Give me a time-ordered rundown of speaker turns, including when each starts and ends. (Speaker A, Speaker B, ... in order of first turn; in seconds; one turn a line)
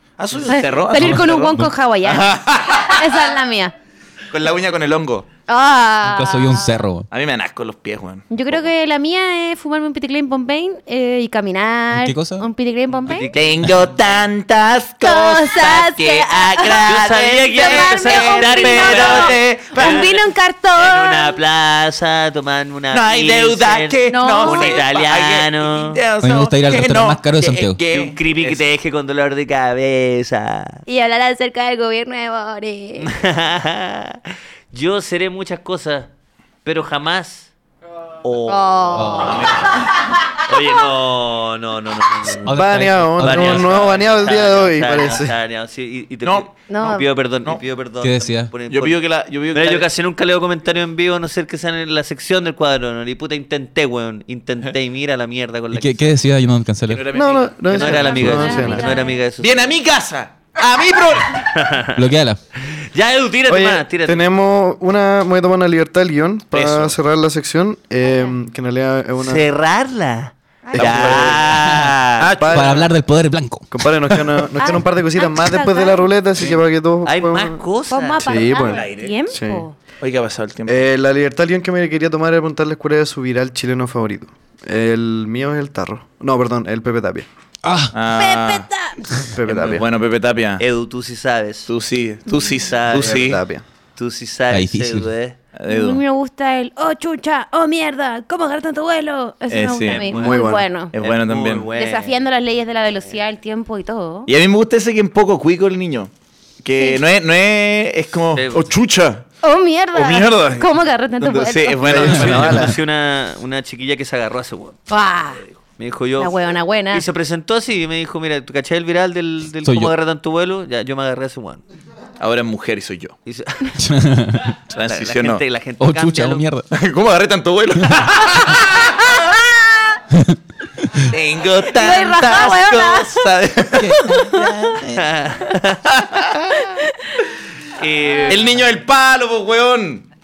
Speaker A: 0.2-3.1
Speaker B: 0.4-3.7
Speaker C: 1.0-1.7
Speaker A: 4.3-5.3
Speaker B: 5.5-6.7
Speaker C: 6.0-7.1
Speaker A: 7.1-8.7
Speaker B: 8.3-13.3
Speaker C: 11.9-12.5
Speaker D: 13.1-13.9
Speaker A: 13.3-20.1
Speaker B: 15.0-21.4
Speaker D: 16.8-20.1
Speaker D: 20.8-26.0
Speaker A: 22.9-28.6
Speaker B: 24.1-24.8
Speaker C: 26.2-27.8
Speaker D: 27.9-30.8
Speaker B: 30.9-33.1
Speaker D: 33.0-36.1
Speaker D: 36.6-37.5
Speaker D: 38.2-39.7
Speaker B: 38.5-39.9
Speaker C: 38.9-39.4
Speaker A: 39.2-39.9
Speaker D: 40.4-42.5
Speaker C: 42.5-43.7
Speaker E: 42.5-45.4
Speaker D: 43.2-49.0
Speaker A: 46.2-46.9
Speaker B: 46.7-47.1
Speaker C: 48.0-48.6
Speaker A: 48.7-49.9
Speaker D: 49.5-56.2
Speaker C: 55.7-57.1
Speaker A: 56.9-58.6
Speaker E: 57.1-58.9
Speaker D: 57.7-59.7
Speaker B: 57.8-59.2
Speaker A: 59.4-61.7
Speaker D: 61.4-62.0
Speaker C: 61.9-62.4
Speaker D: 62.6-64.2
Speaker E: 63.5-69.4
Speaker A: 66.5-67.0
Speaker B: 68.0-68.3
Speaker D: 69.2-72.3
Speaker B: 70.7-70.9
Speaker E: 70.7-71.6
Speaker A: 70.8-71.4
Speaker C: 71.5-72.0
Speaker A: 72.2-72.9
Speaker E: 72.4-72.9
Speaker C: 72.5-74.3
Speaker E: 73.7-77.7
Speaker B: 74.5-76.1
Speaker D: 77.0-78.5
Speaker B: 77.9-79.8
Speaker E: 78.2-79.7
Speaker A: 78.5-79.2
Speaker A: 80.0-80.8
Speaker E: 80.7-87.3
Speaker C: 87.7-88.0
Speaker A: 87.9-88.7
Speaker B: 88.2-89.0
Speaker E: 89.3-89.9
Speaker A: 89.4-90.6
Speaker D: 90.6-91.7
Speaker A: 91.7-93.4
Speaker D: 92.6-93.4
Speaker E: 93.0-93.6
Speaker D: 94.0-95.4
Speaker C: 94.5-95.1
Speaker A: 95.5-96.0
Speaker B: 95.7-100.9
Speaker A: 99.5-100.1
Speaker D: 99.9-100.4
Speaker E: 100.1-100.7
Speaker A: 100.9-101.7
Speaker D: 100.9-102.1
Speaker B: 101.8-104.3
Speaker A: 104.3-106.1
Speaker A: 106.6-109.3
Speaker D: 108.3-108.7
Speaker B: 109.4-112.1
Speaker A: 109.9-110.7
Speaker A: 111.2-112.7
Speaker E: 111.8-112.8
Speaker D: 112.0-114.8
Speaker C: 112.2-112.7
Speaker B: 114.9-115.5
Speaker D: 115.8-116.4
Speaker B: 116.2-117.1
Speaker D: 116.9-121.6
Speaker C: 119.7-119.9
Speaker A: 122.2-123.2
Speaker D: 123.3-123.8
Speaker C: 123.8-124.6
Speaker A: 124.7-125.4
Speaker D: 124.8-126.5
Speaker C: 125.8-126.7
Speaker A: 126.7-129.5
Speaker A: 131.1-135.1
Speaker B: 131.7-133.3
Speaker B: 133.8-134.8
Speaker D: 134.9-135.8
Speaker A: 135.9-136.7
Speaker B: 136.6-137.2
Speaker D: 137.7-138.4
Speaker A: 138.3-140.1